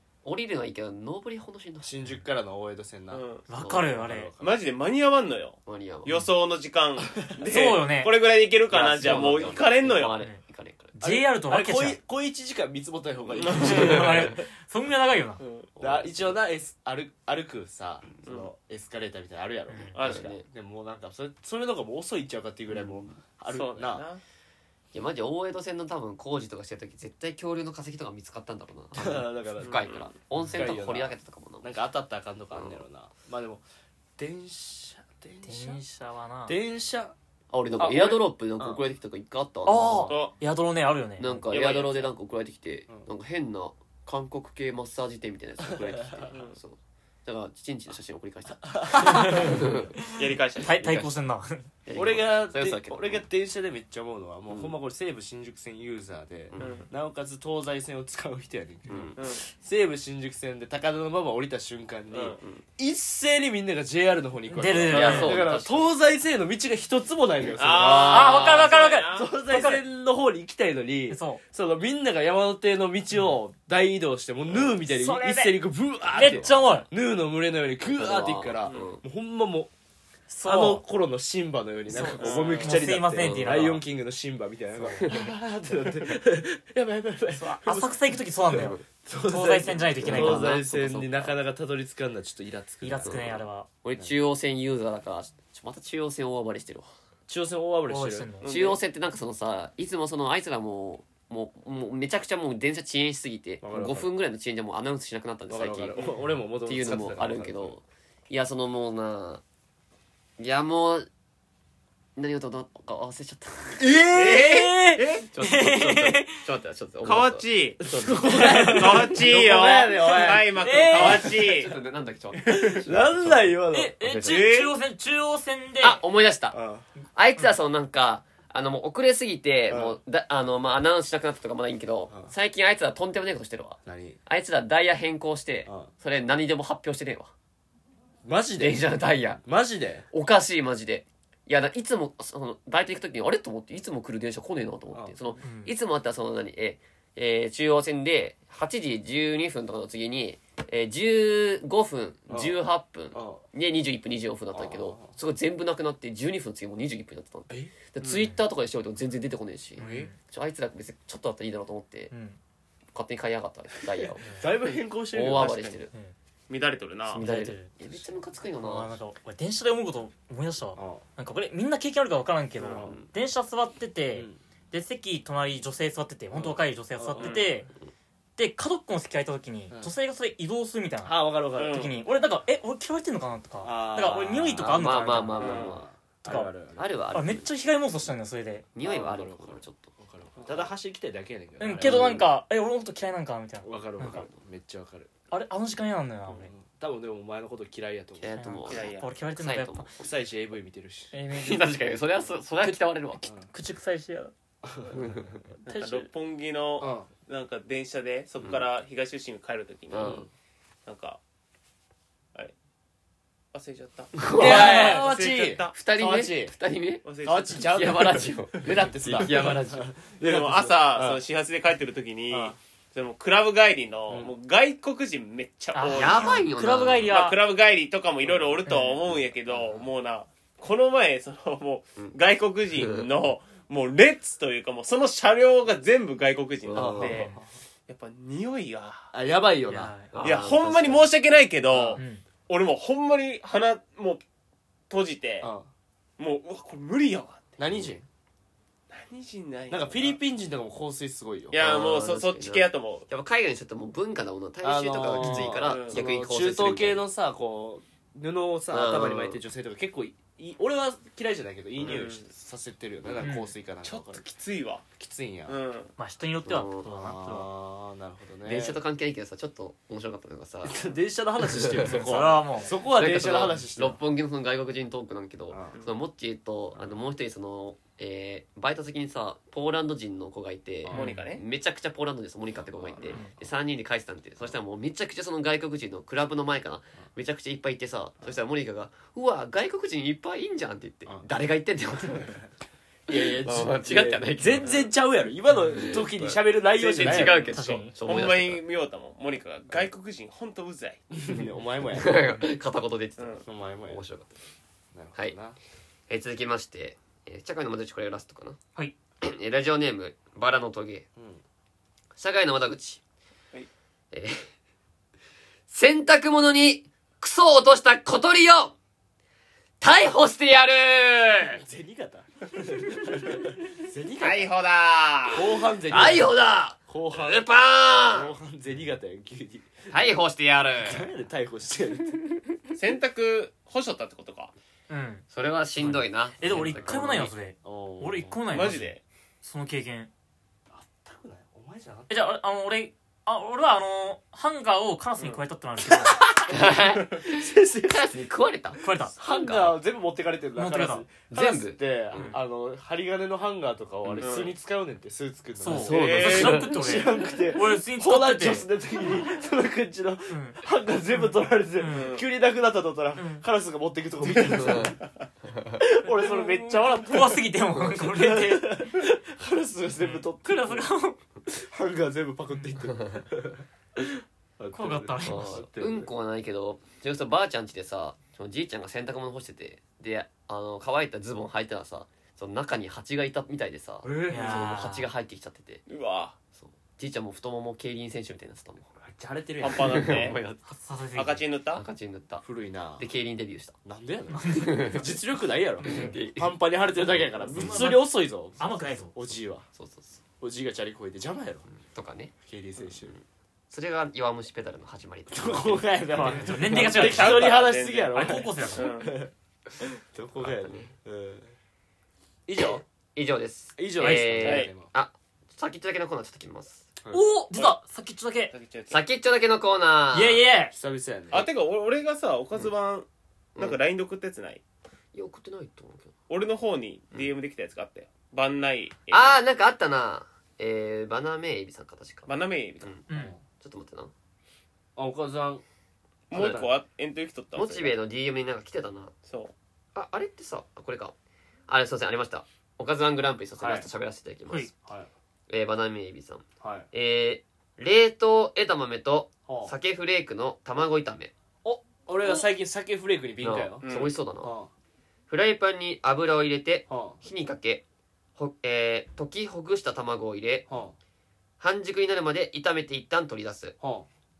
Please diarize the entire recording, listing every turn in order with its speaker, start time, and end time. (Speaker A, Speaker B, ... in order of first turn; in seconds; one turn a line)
Speaker A: 0.2-1.9
Speaker B: 1.8-4.6
Speaker C: 3.1-3.4
Speaker D: 3.5-4.3
Speaker A: 3.5-3.9
Speaker C: 4.4-10.2
Speaker A: 5.7-6.1
Speaker D: 7.5-8.1
Speaker A: 8.7-10.9
Speaker B: 8.8-9.6
Speaker D: 10.9-12.0
Speaker B: 11.0-14.4
Speaker C: 13.4-14.1
Speaker D: 13.5-15.4
Speaker C: 15.4-15.7
Speaker B: 15.8-24.1
Speaker A: 15.8-16.1
Speaker D: 19.7-20.0
Speaker C: 19.9-20.3
Speaker A: 20.0-20.4
Speaker A: 22.7-23.0
Speaker C: 23.5-24.2
Speaker A: 24.9-31.7
Speaker B: 28.9-29.8
Speaker C: 29.6-30.1
Speaker D: 30.4-30.6
Speaker B: 30.5-33.6
Speaker A: 32.5-32.8
Speaker B: 34.2-35.8
Speaker D: 35.4-36.6
Speaker B: 36.5-37.1
Speaker A: 37.5-40.1
Speaker B: 37.8-38.8
Speaker D: 39.6-41.4
Speaker B: 39.7-40.2
Speaker C: 40.1-40.3
Speaker A: 41.2-50.0
Speaker C: 41.5-42.1
Speaker B: 45.7-46.3
Speaker B: 48.7-49.6
Speaker D: 48.9-51.7
Speaker C: 50.1-50.8
Speaker A: 50.7-51.2
Speaker A: 51.9-53.2
Speaker B: 51.9-68.4
Speaker A: 54.5-54.8
Speaker A: 56.5-56.8
Speaker C: 56.6-56.9
Speaker A: 58.9-59.2
Speaker C: 59.2-59.4
Speaker C: 62.1-62.5
Speaker D: 64.5-65.4
Speaker A: 64.9-65.9
Speaker C: 67.6-69.7
Speaker A: 67.7-68.7
Speaker D: 68.1-69.8
Speaker B: 69.1-79.7
Speaker D: 71.1-71.4
Speaker D: 74.8-75.6
Speaker D: 76.1-76.9
Speaker A: 76.2-76.5
Speaker A: 77.8-79.0
Speaker D: 80.3-80.8
Speaker B: 80.4-93.3
Speaker D: 81.9-83.8
Speaker C: 82.2-82.9
Speaker A: 83.2-83.6
Speaker A: 85.0-85.3
Speaker D: 87.3-90.6
Speaker A: 88.5-88.8
Speaker A: 90.0-91.3
Speaker D: 92.8-93.7
Speaker A: 93.0-96.9
Speaker B: 97.3-98.3
Speaker D: 97.9-98.5
Speaker C: 98.4-98.8
Speaker A: 98.4-106.0
Speaker B: 103.6-104.1
Speaker B: 105.5-107.8
Speaker A: 106.6-109.4
Speaker A: 110.4-111.1
Speaker A: 112.2-113.8
Speaker B: 113.8-115.1
Speaker C: 114.1-115.3
Speaker A: 115.3-118.8
Speaker D: 115.4-116.4
Speaker C: 117.0-121.7
Speaker B: 117.8-121.4
Speaker D: 120.6-121.2
Speaker A: 121.2-124.2
Speaker B: 122.4-124.4
Speaker C: 122.5-122.8
Speaker D: 123.7-126.0
Speaker C: 124.2-124.8
Speaker A: 125.8-126.5
Speaker B: 126.5-126.8
Speaker A: 127.1-137.3
Speaker B: 129.7-130.0
Speaker B: 133.8-134.2
Speaker B: 135.7-135.9
Speaker B: 138.2-138.9
Speaker A: 138.6-139.4
Speaker B: 139.4-140.1
Speaker A: 140.1-162.1
Speaker D: 145.4-145.7
Speaker B: 152.3-152.6
Speaker B: 153.1-153.4
Speaker B: 154.5-155.2
Speaker C: 158.0-158.3
Speaker B: 159.8-160.1
Speaker D: 159.8-160.1
Speaker D: 162.1-162.4
Speaker A: 162.9-164.4
Speaker B: 164.0-165.7
Speaker A: 165.1-165.9
Speaker C: 166.5-167.2
Speaker A: 167.1-169.0
Speaker D: 167.1-167.7
Speaker D: 168.6-177.7
Speaker B: 170.8-171.0
Speaker C: 172.6-172.8
Speaker B: 172.7-173.0
Speaker B: 174.1-174.4
Speaker B: 176.3-177.5
Speaker C: 177.2-177.6
Speaker D: 178.4-185.6
Speaker B: 181.0-181.9
Speaker C: 181.6-182.0
Speaker B: 183.6-186.9
Speaker A: 184.6-185.8
Speaker C: 185.4-185.8
Speaker D: 186.2-186.5
Speaker A: 186.8-187.5
Speaker D: 187.1-188.7
Speaker A: 188.7-189.9
Speaker B: 188.8-192.3
Speaker D: 191.6-194.3
Speaker A: 191.8-192.2
Speaker B: 193.6-195.1
Speaker D: 195.3-196.5
Speaker B: 196.3-198.3
Speaker A: 198.2-200.1
Speaker D: 198.3-199.9
Speaker C: 198.7-199.1
Speaker B: 200.0-201.1
Speaker D: 201.1-201.7
Speaker A: 201.3-203.2
Speaker D: 202.6-202.9
Speaker B: 203.2-203.5
Speaker D: 203.4-204.3
Speaker B: 204.6-205.4
Speaker A: 204.9-205.2
Speaker C: 205.6-210.2
Speaker D: 205.7-206.1
Speaker B: 206.8-207.1
Speaker A: 209.9-210.2
Speaker B: 210.0-210.3
Speaker C: 210.8-211.2
Speaker C: 213.5-215.8
Speaker A: 214.1-215.1
Speaker B: 214.3-216.5
Speaker D: 214.4-215.0
Speaker A: 215.7-217.1
Speaker C: 217.0-217.7
Speaker B: 217.2-221.2
Speaker A: 217.6-219.9
Speaker C: 220.2-226.4
Speaker B: 224.1-224.3
Speaker D: 225.7-227.4
Speaker A: 225.9-227.1
Speaker C: 227.0-237.3
Speaker D: 228.7-229.0
Speaker A: 232.7-233.1
Speaker A: 236.7-237.2
Speaker B: 236.7-237.4
Speaker D: 237.0-237.4
Speaker C: 237.9-239.1
Speaker B: 239.1-239.9
Speaker D: 239.7-240.1
Speaker A: 240.1-241.1
Speaker C: 240.2-244.2
Speaker B: 241.7-242.0
Speaker D: 242.0-242.2
Speaker C: 244.9-245.5
Speaker B: 245.4-245.7
Speaker C: 246.2-247.6
Speaker B: 247.6-248.1
Speaker C: 248.9-250.2
Speaker B: 249.7-251.6
Speaker C: 251.5-253.1
Speaker A: 251.5-257.0
Speaker B: 254.6-264.2
Speaker D: 255.2-255.5
Speaker C: 255.6-256.0
Speaker A: 258.7-259.4
Speaker C: 261.8-262.3
Speaker D: 263.2-263.5
Speaker C: 263.8-264.8
Speaker B: 265.0-265.6
Speaker C: 265.5-265.9
Speaker D: 266.0-267.5
Speaker A: 266.4-266.9
Speaker B: 267.0-268.8
Speaker A: 268.4-270.8
Speaker B: 270.6-274.0
Speaker A: 271.4-272.2
Speaker D: 271.8-272.7
Speaker A: 272.8-292.4
Speaker B: 275.5-275.8
Speaker B: 280.8-281.2
Speaker C: 280.9-281.4
Speaker D: 280.9-281.2
Speaker B: 282.8-283.3
Speaker B: 293.1-297.6
Speaker A: 293.1-294.8
Speaker A: 295.7-298.6
Speaker D: 297.0-297.9
Speaker C: 297.1-301.0
Speaker B: 301.1-302.3
Speaker A: 301.9-304.3
Speaker B: 303.4-304.0
Speaker B: 304.9-305.6
Speaker A: 306.1-308.6
Speaker A: 309.2-311.1
Speaker A: 312.2-313.0
Speaker A: 314.1-314.4
Speaker A: 315.7-318.7
Speaker A: 319.8-321.6
Speaker B: 321.6-324.5
Speaker C: 324.2-325.5
Speaker B: 325.3-326.3
Speaker A: 325.9-328.3
Speaker B: 326.9-327.5
Speaker B: 328.0-330.1
Speaker A: 329.9-331.0
Speaker B: 330.8-332.4
Speaker C: 332.7-334.5
Speaker D: 334.9-335.2
Speaker A: 335.3-337.3
Speaker D: 335.8-340.1
Speaker B: 336.5-337.0
Speaker B: 337.6-338.7
Speaker C: 338.5-339.0
Speaker B: 340.7-342.3
Speaker D: 342.1-346.2
Speaker B: 345.9-346.7
Speaker A: 346.4-349.8
Speaker B: 347.2-348.1
Speaker D: 348.8-349.2
Speaker B: 349.2-365.0
Speaker D: 350.6-351.1
Speaker A: 351.3-352.3
Speaker A: 354.1-354.4
Speaker C: 354.2-354.6
Speaker D: 355.6-358.7
Speaker A: 355.7-357.0
Speaker C: 355.8-356.7
Speaker D: 360.3-360.6
Speaker D: 361.1-362.2
Speaker C: 361.9-362.2
Speaker D: 363.1-363.4
Speaker D: 364.4-364.9
Speaker A: 364.6-365.0
Speaker A: 365.5-365.8
Speaker B: 365.8-370.9
Speaker D: 366.1-369.0
Speaker D: 370.0-371.2
Speaker B: 371.4-376.1
Speaker D: 374.7-375.6
Speaker A: 375.2-385.8
Speaker B: 384.0-384.8
Speaker D: 384.3-385.1
Speaker C: 385.9-386.4
Speaker A: 386.5-388.9
Speaker B: 389.0-390.2
Speaker C: 389.6-390.4
Speaker A: 389.8-390.6
Speaker D: 390.7-391.4
Speaker C: 391.1-391.8
Speaker A: 391.7-392.4
Speaker B: 392.4-393.1
Speaker A: 393.0-393.8
Speaker B: 393.8-399.7
Speaker D: 394.3-394.9
Speaker A: 394.4-395.1
Speaker A: 395.8-396.6
Speaker D: 395.9-396.1
Speaker D: 397.5-399.1
Speaker A: 399.7-400.2
Speaker B: 400.4-401.7
Speaker A: 401.8-402.3
Speaker B: 402.4-403.2
Speaker A: 403.1-405.9
Speaker B: 405.3-409.3
Speaker D: 406.1-407.6
Speaker C: 406.7-409.1
Speaker D: 408.1-408.9
Speaker B: 409.8-411.5
Speaker A: 410.4-410.9
Speaker B: 412.5-412.8
Speaker A: 413.1-416.9
Speaker B: 413.8-414.9
Speaker D: 414.0-414.4
Speaker C: 414.4-414.7
Speaker D: 417.1-418.5
Speaker C: 418.5-419.0
Speaker A: 418.9-420.4
Speaker D: 420.1-420.7
Speaker B: 420.7-421.5
Speaker C: 421.3-424.6
Speaker A: 425.1-426.1
Speaker C: 426.3-429.4
Speaker A: 429.1-433.0
Speaker C: 432.3-433.0
Speaker D: 433.1-433.3
Speaker B: 433.1-433.4
Speaker A: 433.6-434.1
Speaker B: 434.9-435.6
Speaker C: 436.3-438.0
Speaker B: 436.3-436.7
Speaker A: 437.6-439.1
Speaker C: 439.3-439.5
Speaker A: 439.9-441.1
Speaker A: 441.7-444.7
Speaker B: 443.6-443.9
Speaker B: 444.8-445.1
Speaker A: 445.5-451.3
Speaker B: 446.6-446.9
Speaker B: 449.5-449.7
Speaker B: 451.6-453.9
Speaker A: 453.4-454.5
Speaker C: 453.8-454.1
Speaker B: 454.4-454.7
Speaker A: 455.3-457.8
Speaker B: 456.9-457.2
Speaker A: 458.4-460.7
Speaker B: 460.7-460.9
Speaker A: 461.6-463.7
Speaker B: 463.8-464.1